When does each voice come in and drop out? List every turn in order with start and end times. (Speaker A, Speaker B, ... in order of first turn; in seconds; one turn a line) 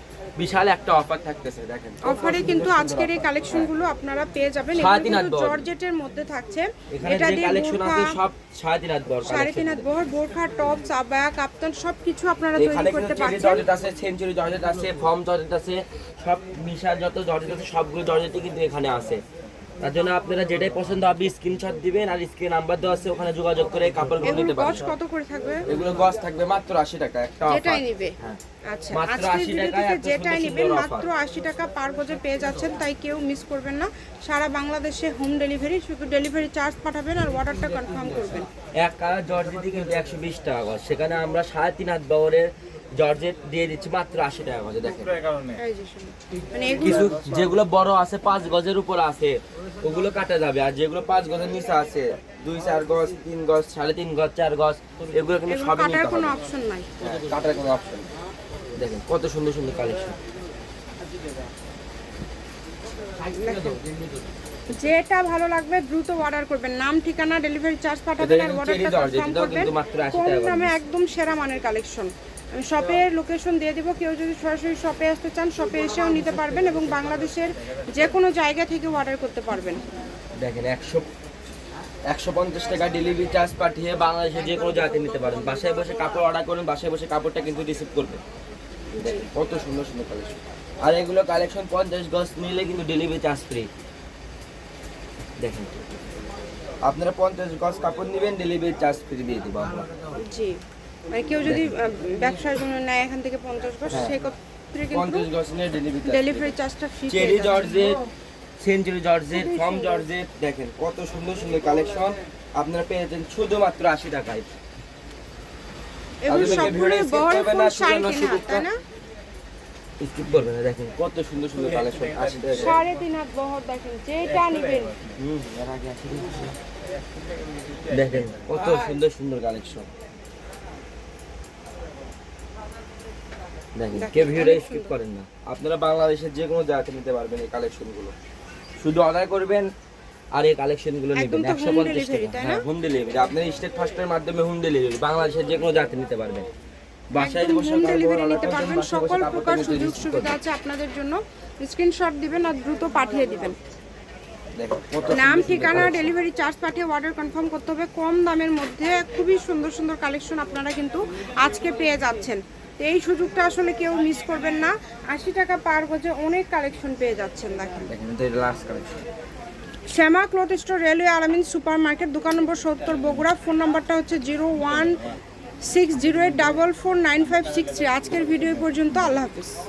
Speaker A: 0.4-3.7
Speaker B: 2.0-8.2
Speaker A: 4.7-5.6
Speaker A: 6.9-10.0
Speaker B: 9.3-13.7
Speaker A: 12.6-19.2
Speaker A: 19.8-24.9
Speaker B: 24.2-25.8
Speaker A: 25.7-28.4
Speaker B: 27.5-28.1
Speaker B: 28.7-38.5
Speaker A: 28.9-31.1
Speaker A: 38.8-45.1
Speaker B: 45.5-47.2
Speaker A: 46.8-56.4
Speaker B: 55.5-56.9
Speaker A: 57.0-58.1
Speaker A: 58.7-60.2
Speaker B: 63.2-63.8
Speaker B: 64.7-79.8
Speaker A: 68.2-70.7
Speaker A: 80.4-81.1
Speaker A: 82.1-88.2
Speaker B: 89.0-89.2
Speaker A: 89.0-93.7
Speaker A: 95.4-95.8
Speaker A: 96.8-99.9
Speaker B: 100.1-100.6
Speaker B: 101.1-105.3
Speaker A: 101.5-101.7
Speaker A: 103.9-104.2
Speaker A: 104.9-106.5
Speaker B: 106.0-108.0
Speaker A: 107.1-108.0
Speaker A: 108.6-114.5
Speaker B: 109.3-110.1
Speaker B: 116.2-118.8
Speaker A: 116.3-118.7
Speaker A: 120.0-122.8
Speaker B: 122.5-125.0
Speaker A: 125.2-126.5
Speaker A: 127.9-129.9
Speaker B: 128.6-128.9
Speaker A: 133.8-138.1
Speaker B: 133.9-134.9
Speaker A: 138.8-139.7
Speaker A: 140.3-146.5
Speaker B: 141.1-142.6
Speaker A: 147.1-150.4
Speaker B: 147.2-153.6
Speaker A: 154.6-156.1
Speaker B: 155.1-167.9
Speaker A: 167.9-169.0
Speaker B: 169.9-175.0
Speaker B: 175.6-179.6